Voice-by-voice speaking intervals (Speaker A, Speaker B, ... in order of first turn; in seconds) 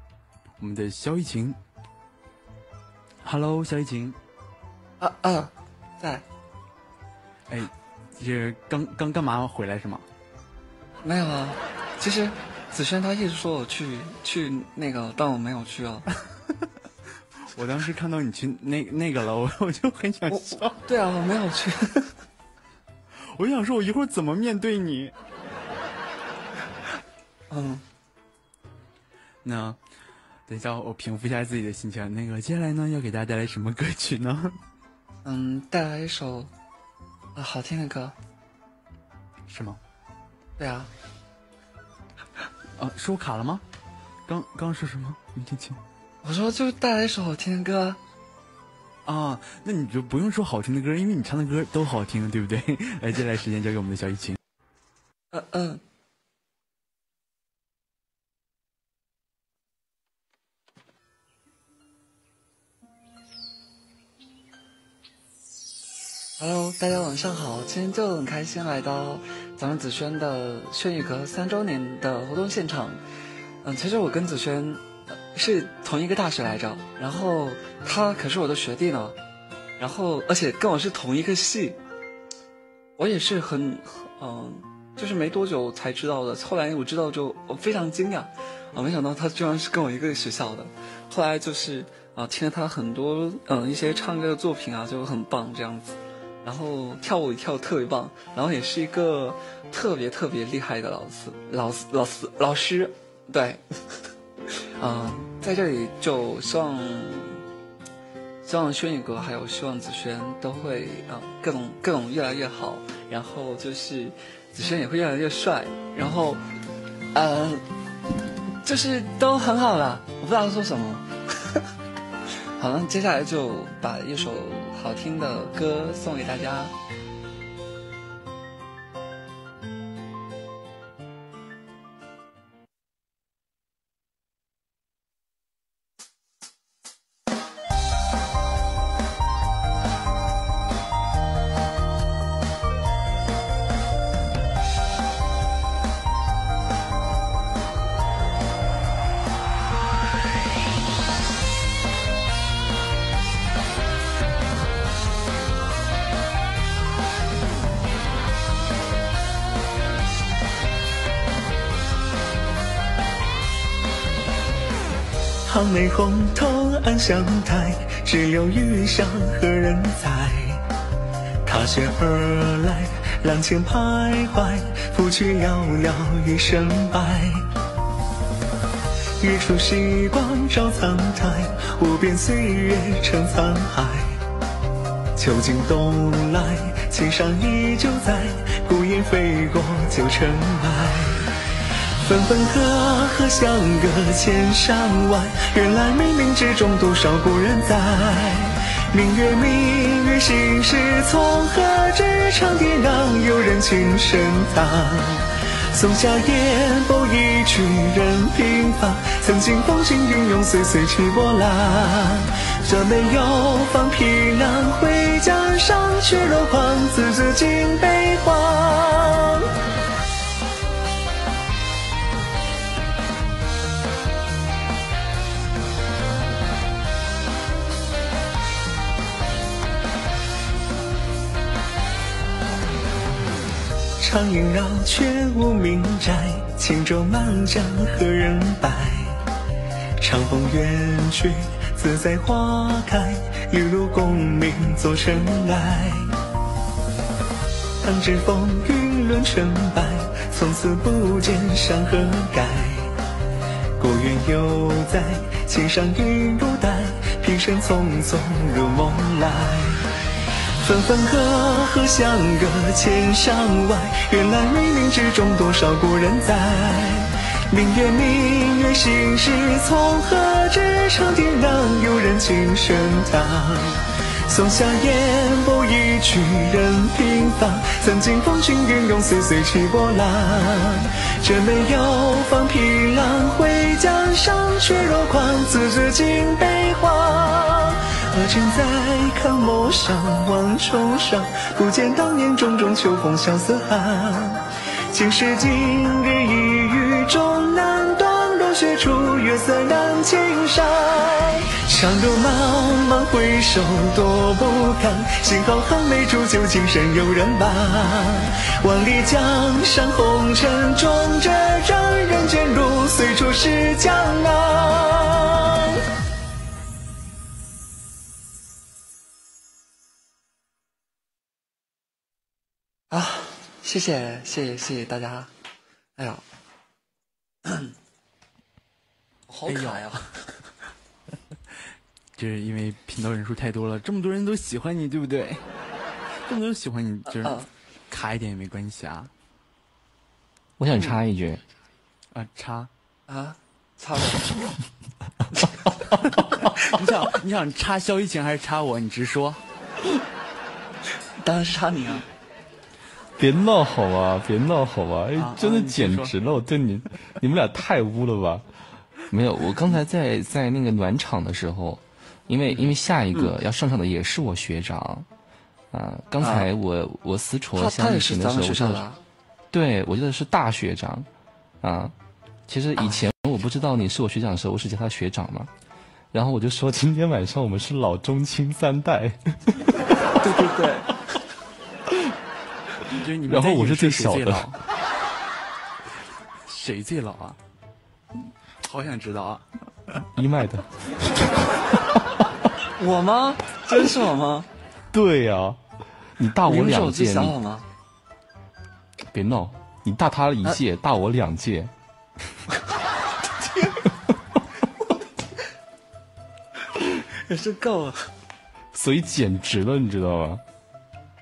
Speaker A: 0.6-1.6, 3.2-4.2, 7.5-10.1, 17.5-20.8, 23.1-25.1, 29.4-29.8, 30.5-34.6, 39.5-39.8, 42.8-43.6, 44.3-45.8, 49.0-54.4, 329.5-330.0, 332.2-335.4, 336.2-339.1, 342.1-342.7, 346.6-349.4, 355.1-356.1, 382.9-384.6, 386.5-387.4, 388.6-389.5
Speaker B: 5.0-6.2, 11.0-16.1, 20.3-22.1, 27.5-27.8, 35.2-36.5, 37.3-38.2, 40.6-40.9, 46.2-48.0, 55.3-55.8, 66.4-73.0, 73.6-79.2, 79.8-81.8, 83.0-104.0, 104.8-107.4, 108.4-116.4, 117.1-117.6, 118.6-121.6, 122.6-126.8, 322.9-325.3, 326.0-326.2, 327.5-327.7, 329.3-330.1, 337.1-337.5, 343.1-344.3, 351.2-352.1, 366.2-366.5, 367.6-369.0, 372.8-373.1, 380.2-381.2, 392.8-394.5, 396.4-397.6, 403.4-403.8, 406.8-408.1
Speaker C: 165.4-170.6, 171.4-177.4, 179.2-184.2, 185.2-191.3, 192.0-219.5, 234.0-239.2, 240.0-246.1, 247.8-252.9, 253.8-259.9, 260.6-315.8
Speaker D: 340.6-341.4, 353.2-358.4, 359.1-365.1, 365.7-368.9, 369.5-371.1, 371.6-371.9, 372.5-375.5, 376.1-380.0, 382.9-384.5, 390.1-392.2, 394.9-395.6, 396.2-397.4, 399.1-401.7, 408.7-410.4